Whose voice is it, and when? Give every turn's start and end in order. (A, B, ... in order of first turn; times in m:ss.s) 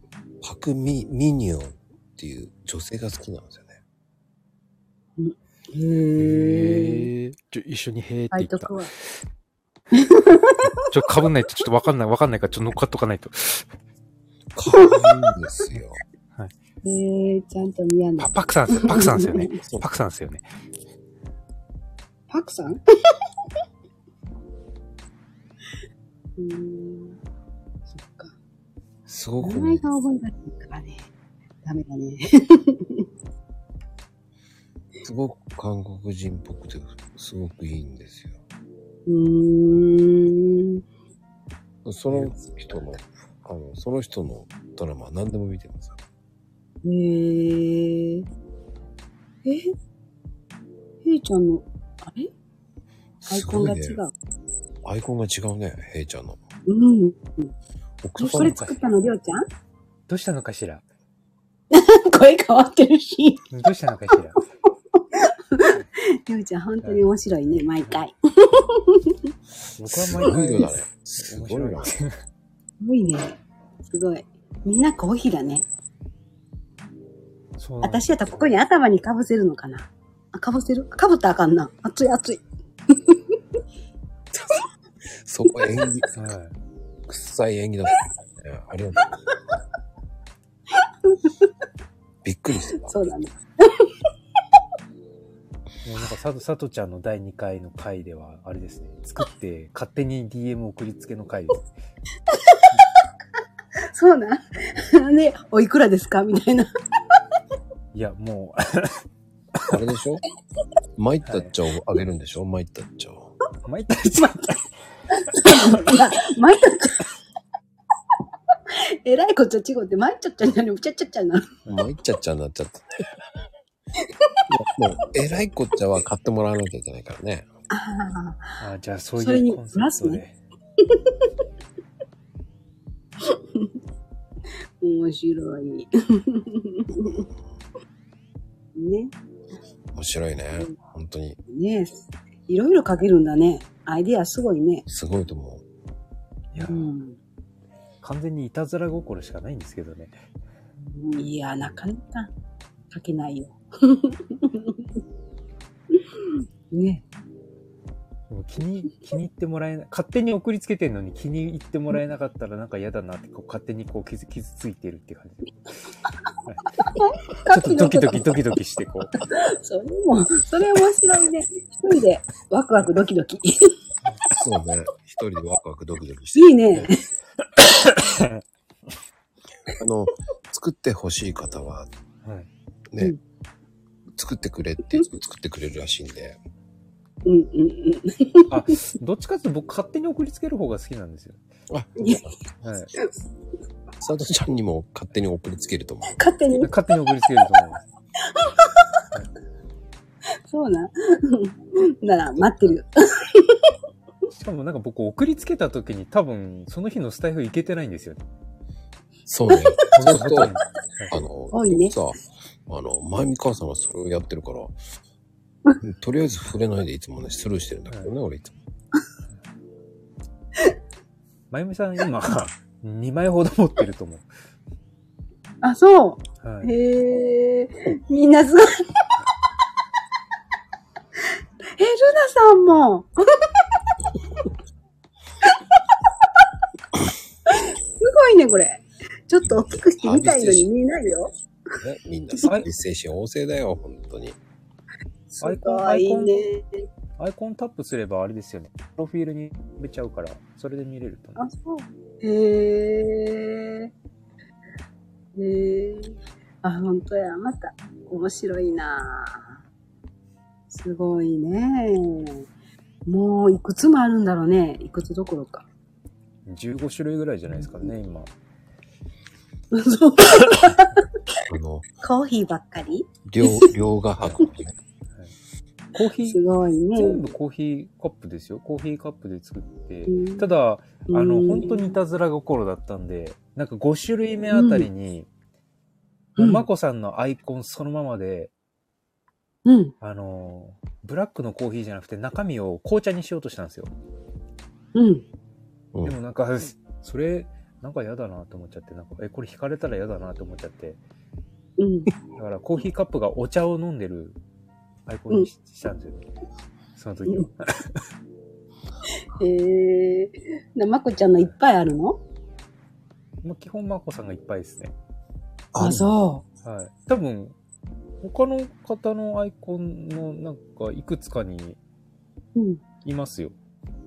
0:00.4-0:03.8 A
0:05.2-0:07.1 B
0:06.2-0:09.2 C
0:08.3-0:08.9 B
0:09.9-0:10.7 B
0:10.6-0:13.7 C
0:14.5-0:16.0 A
0:14.7-0:15.1 B
0:16.8-0:19.5 B
0:18.2-0:20.4 C
0:19.6-0:19.9 A
0:22.3-0:22.8 B
0:26.4-0:27.2 B
0:27.9-0:28.3 B
0:29.1-0:29.9 A
0:29.4-0:31.0 B
0:31.6-0:33.1 B
0:35.0-0:38.4 A
0:39.1-0:40.8 B
0:41.8-0:46.0 A
0:42.1-0:42.3 C
0:46.8-0:48.3 B
0:49.4-0:49.7 B
0:51.0-0:52.3 B
0:53.2-0:54.0 A
0:53.3-0:54.1 B
0:54.8-0:56.4 A
0:56.7-0:57.5 B
0:58.0-0:58.6 A
0:58.2-0:59.4 B
0:58.2-0:58.9 C
1:00.1-1:00.8 C
1:01.7-1:03.4 B
1:03.5-1:04.4 C
1:04.9-1:09.2 B
1:06.8-1:07.1 C
1:09.8-1:12.2 C
1:09.8-1:11.9 A
1:12.8-1:15.6 B
1:17.6-1:18.6 C
1:17.8-1:23.4 B
1:24.3-1:24.6 A
1:25.1-1:26.2 A
1:26.1-1:26.5 C
1:27.1-1:29.1 A
1:30.8-1:31.5 B
1:32.2-1:33.1 A
1:32.7-1:33.9 B
1:35.8-1:41.7 C
1:42.3-1:42.6 B
1:43.9-1:46.7 B
1:47.9-1:49.0 C
1:49.7-1:50.2 A
1:51.0-1:53.3 A
1:51.2-1:51.5 C
1:53.6-1:54.6 C
1:54.0-1:54.3 B
1:55.1-1:57.0 B
1:58.7-2:01.5 B
2:01.7-2:03.0 A
2:04.0-2:04.4 B
2:04.5-2:07.5 A
2:07.7-2:08.6 B
2:08.6-2:10.4 C
2:09.2-2:10.2 B
2:10.8-2:11.3 B
2:13.2-2:13.7 B
2:14.8-2:17.3 B
2:18.7-2:19.1 B
2:19.9-2:21.4 A
2:21.5-2:24.8 B
2:24.9-2:25.6 A
2:26.5-2:26.9 C
2:26.6-2:27.2 B
2:28.0-2:30.2 C
2:30.8-2:32.3 B
2:32.9-2:34.8 B
2:35.9-2:37.0 B
2:38.3-2:45.5 C
2:46.8-2:48.4 B
2:47.4-2:49.1 C
2:49.2-2:53.7 B
2:54.4-2:56.5 A
2:56.3-2:57.0 B
2:57.4-2:58.4 C
2:59.8-3:01.9 A
3:02.2-3:02.5 C
3:04.1-3:06.4 A
3:07.2-3:08.5 B
3:08.5-3:11.4 C
3:11.7-3:12.4 A
3:12.0-3:12.2 B
3:12.6-3:12.9 C
3:14.0-3:16.2 A
3:16.2-3:16.7 B
3:16.6-3:17.8 C
3:18.3-3:18.8 B
3:20.5-3:23.7 B
3:22.4-3:22.8 A
3:24.3-3:28.2 C
3:29.3-3:30.6 A
3:29.5-3:29.8 B
3:29.9-3:31.2 C
3:31.1-3:34.8 A
3:31.5-3:31.9 B
3:35.8-3:38.6 A
3:41.5-3:44.3 C
3:45.6-3:49.1 B
3:46.4-3:46.7 C
3:51.8-3:53.6 B
3:57.5-4:01.3 B
3:59.4-4:00.7 A
4:01.8-4:04.4 A
4:05.3-4:06.8 B
4:05.4-4:06.4 C
4:07.2-4:11.4 C
4:11.4-4:13.9 B
4:15.4-4:19.6 B
4:20.7-4:22.4 B
4:23.0-4:25.6 B
4:26.4-4:28.3 C
4:29.7-4:31.4 B
4:31.5-4:31.8 A
4:32.0-4:33.7 B
4:33.3-4:34.7 A
4:34.2-4:34.4 C
4:35.9-4:36.4 C
4:36.2-4:37.2 B
4:36.9-4:45.3 C
4:40.1-4:40.4 B
4:41.1-4:42.0 B
4:44.5-4:44.9 B
4:46.4-4:46.6 B
4:46.4-4:48.5 C
4:49.6-4:49.9 B
4:50.0-4:53.9 C
4:54.9-4:55.2 B
4:56.0-5:01.0 C
5:01.8-5:02.1 B
5:02.3-5:04.4 C
5:05.1-5:06.3 C
5:07.0-5:08.0 C
5:09.2-5:12.2 B
5:13.4-5:14.9 C
5:15.7-5:16.0 A
5:15.8-5:16.4 B
5:16.6-5:17.6 C
5:18.2-5:21.8 C
5:22.5-5:22.8 B
5:23.0-5:23.6 C